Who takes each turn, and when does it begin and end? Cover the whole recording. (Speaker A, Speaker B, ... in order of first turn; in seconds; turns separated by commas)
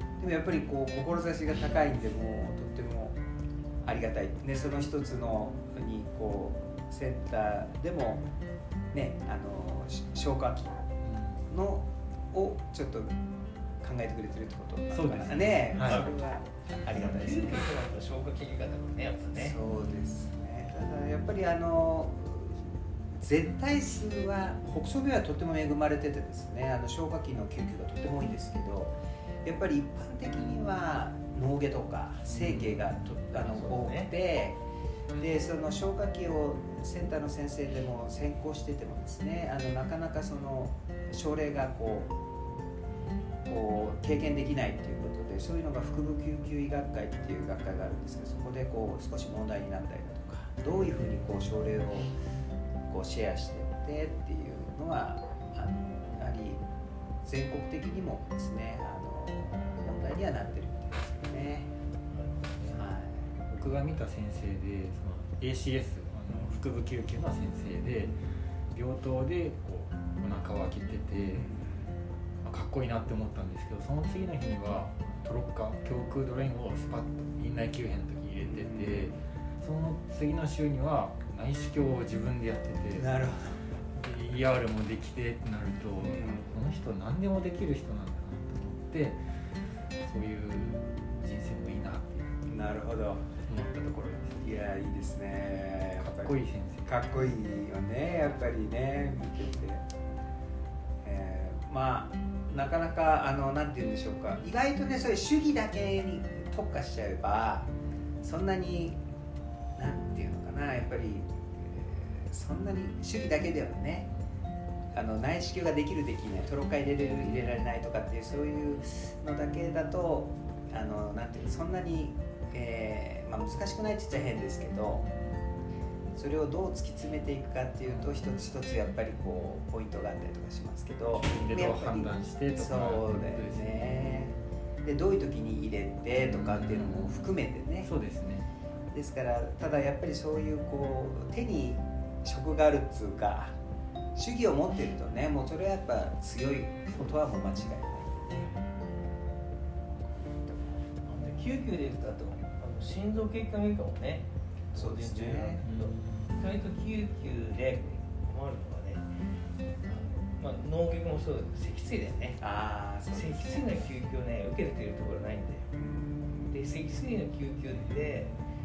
Speaker A: 0.2-3.2, Speaker A: 3.8-8.2, Speaker A: 8.9-10.8, Speaker B: 11.0-11.4, Speaker A: 11.5-13.1, Speaker A: 13.8-17.6, Speaker B: 14.9-16.0, Speaker C: 15.8-16.1, Speaker C: 16.9-19.6, Speaker A: 19.3-34.6, Speaker B: 32.3-33.0, Speaker C: 33.3-34.1, Speaker A: 35.1-42.1, Speaker A: 43.4-52.1, Speaker A: 52.9-56.6, Speaker A: 57.2-61.7, Speaker C: 62.1-62.8, Speaker A: 62.7-63.3, Speaker B: 63.5-68.1, Speaker A: 66.3-66.7, Speaker B: 68.7-71.5, Speaker A: 71.3-71.8, Speaker B: 72.4-83.1, Speaker A: 78.4-79.1, Speaker A: 82.9-83.6, Speaker B: 84.0-89.2, Speaker A: 86.0-86.5, Speaker B: 90.0-92.5, Speaker A: 92.5-93.3, Speaker B: 93.3-94.5, Speaker A: 94.4-99.8, Speaker B: 96.0-96.9, Speaker A: 101.0-107.7, Speaker A: 108.2-109.0, Speaker A: 109.8-114.1, Speaker A: 114.9-125.0, Speaker B: 124.9-125.5, Speaker A: 126.2-137.9, Speaker B: 127.8-128.2, Speaker B: 131.2-134.0, Speaker B: 136.2-138.5, Speaker A: 138.9-143.5, Speaker A: 144.1-148.5, Speaker A: 150.0-150.8, Speaker C: 151.1-159.0, Speaker A: 154.7-155.7, Speaker B: 155.6-156.4, Speaker C: 159.8-162.4, Speaker A: 162.4-163.7, Speaker C: 163.1-165.7, Speaker A: 165.7-166.6, Speaker C: 166.5-168.3